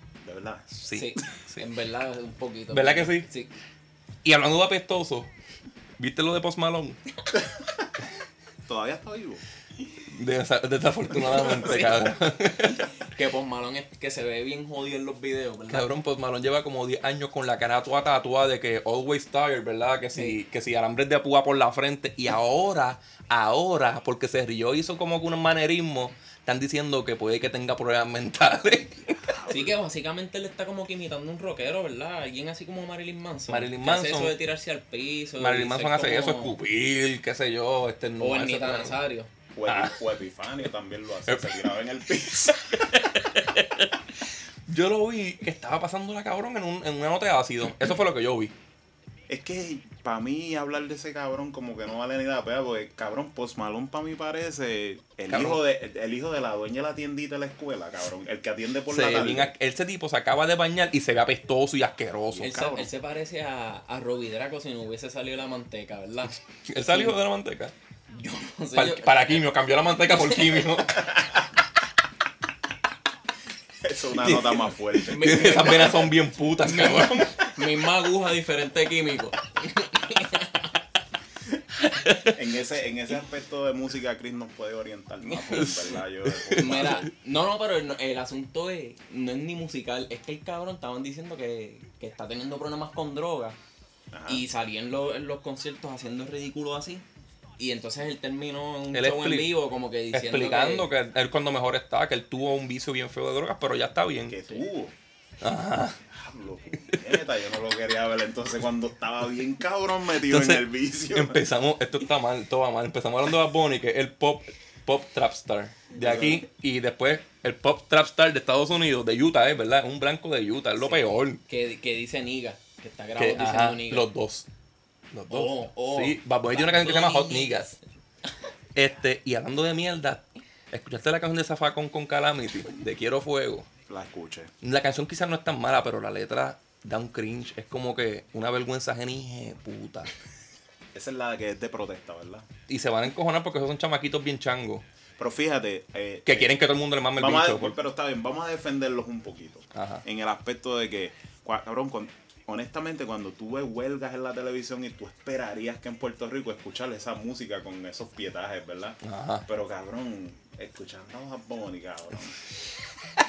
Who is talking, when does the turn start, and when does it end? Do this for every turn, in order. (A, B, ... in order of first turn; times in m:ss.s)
0:00.2-0:00.7 A
0:00.7-0:01.6 B
0:00.9-0:03.5 C
0:02.7-0:03.3 B
0:04.2-0:05.3 B
0:06.0-0:07.0 B
0:08.6-0:09.4 A
0:10.1-0:12.8 B
0:11.4-0:12.1 C
0:13.0-0:15.9 C
0:15.7-0:29.4 B
0:29.3-0:29.7 A
0:29.5-0:36.6 C
0:33.5-0:34.4 B
0:35.4-0:39.0 B
0:38.2-0:39.3 C
0:39.5-0:43.0 A
0:39.6-0:40.0 B
0:41.3-0:41.6 B
0:42.8-0:44.0 B
0:44.7-0:48.5 B
0:49.3-0:59.5 A
0:55.3-0:55.6 B
0:58.9-1:02.7 B
1:02.4-1:02.9 A
1:02.4-1:06.3 C
1:06.7-1:07.7 B
1:06.9-1:07.1 C
1:08.1-1:09.3 C
1:08.7-1:11.1 B
1:10.1-1:10.6 C
1:13.8-1:16.1 A
1:14.2-1:17.6 B
1:14.9-1:16.1 C
1:16.6-1:20.7 C
1:21.9-1:22.4 B
1:22.3-1:27.1 A
1:25.4-1:27.0 B
1:26.5-1:33.6 C
1:34.1-1:34.4 A
1:34.3-1:37.0 C
1:37.6-1:40.9 C
1:38.9-1:39.6 B
1:40.1-1:44.4 B
1:44.3-1:44.9 A
1:45.4-1:46.0 B
1:46.1-1:51.4 A
1:50.2-2:01.4 B
1:55.9-1:56.4 A
2:00.8-2:04.0 C
2:03.2-2:04.5 B
2:05.1-2:07.7 B
2:05.3-2:07.7 C
2:08.7-2:13.7 B
2:13.9-2:14.5 A
2:14.6-2:20.1 B
2:20.9-2:22.4 A
2:22.7-2:24.8 B
2:25.2-2:26.5 A
2:26.2-2:27.8 B
2:27.2-2:42.4 A
2:29.7-2:30.0 B
2:39.0-2:39.4 B